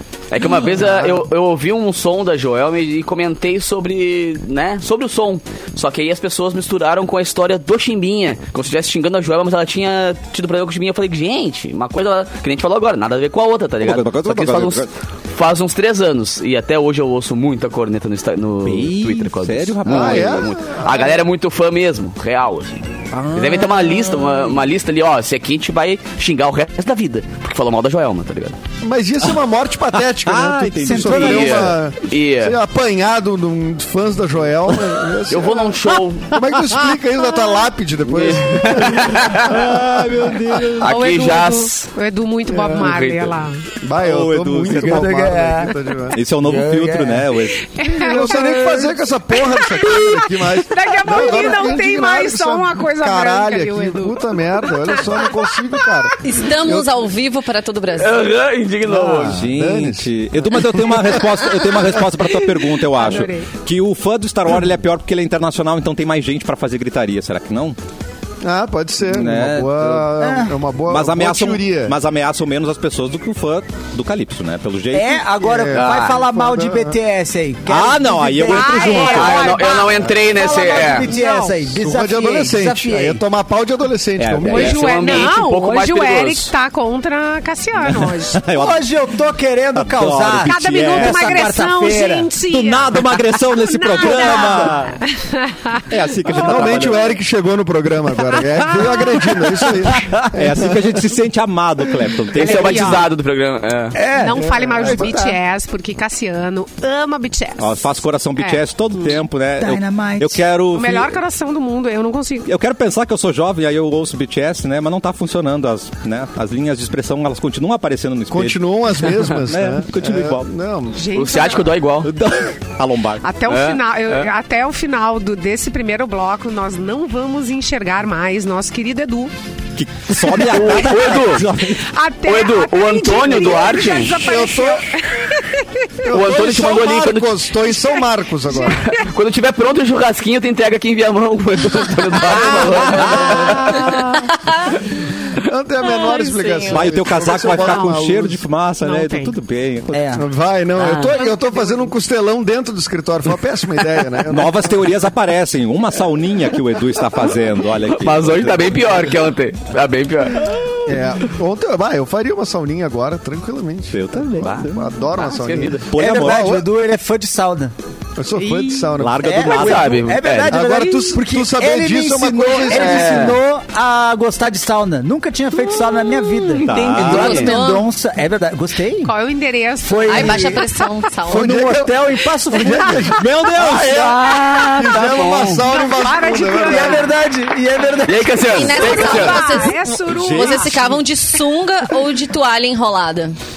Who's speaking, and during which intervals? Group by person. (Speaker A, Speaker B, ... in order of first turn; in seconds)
Speaker A: 0.3-28.6, 31.2-32.6, 35.3-36.3, 38.1-39.6, 40.8-41.9, 42.7-43.4, 58.0-59.4, 75.7-76.2, 79.0-81.1, 84.5-86.5, 102.3-104.0, 121.1-122.1, 123.5-124.3, 130.3-131.5, 132.2-134.3, 136.1-137.4, 138.8-143.9, 157.9-160.5, 164.4-165.9, 169.4-170.6, 172.8-173.3, 176.6-177.6, 183.7-185.7, 188.1-189.6
Speaker B: 0.8-1.2, 19.9-21.2, 28.8-40.1, 43.8-46.2, 48.0-56.9, 58.9-61.1, 68.4-72.0, 75.4-77.0, 81.7-84.8, 96.3-100.9, 104.4-105.1, 118.3-121.0, 134.2-134.8, 136.0-138.8, 142.3-143.9, 145.4-148.4, 150.2-154.8, 160.9-166.7, 168.2-169.4, 170.5-173.4, 181.3-182.0, 182.5-187.1
Speaker C: 13.8-14.9, 18.6-20.5, 23.1-24.5, 30.2-31.7, 39.4-41.0, 44.0-45.1, 46.1-47.7, 59.3-67.8, 69.1-70.0, 70.9-75.2, 77.7-79.5, 84.2-84.8, 87.8-88.8, 89.8-91.5, 92.5-95.0, 95.9-97.1, 100.3-103.0, 107.6-111.2, 112.5-120.5, 122.0-123.2, 129.8-131.8, 142.6-143.6, 146.7-150.1, 154.3-159.0, 163.9-164.8, 165.9-166.6, 169.0-170.1, 176.7-177.5, 183.1-184.0, 190.1-190.9
Speaker D: 30.8-31.7, 44.7-45.8, 46.4-47.3, 70.2-70.6, 74.9-79.5, 80.3-83.2, 88.5-92.3, 104.0-105.3, 109.6-110.4, 149.9-150.2, 165.9-167.7, 169.2-179.1, 179.8-180.6, 181.3-183.1, 186.5-188.7
Speaker E: 40.8-43.6, 47.6-56.0, 62.8-63.5, 78.5-81.6, 84.5-88.4, 90.4-96.7, 98.3-99.3, 102.3-103.1, 104.1-109.2, 110.7-112.5, 121.0-121.8, 123.2-129.3, 131.7-136.1, 138.0-139.1, 143.8-144.3, 147.4-148.0, 148.8-149.4, 151.0-151.8, 168.4-169.0, 175.8-176.6, 179.0-180.9, 182.6-183.1, 185.6-187.1, 188.7-191.0
Speaker F: 56.2-58.2, 145.9-146.8, 177.0-177.9, 180.1-181.5, 188.5-193.4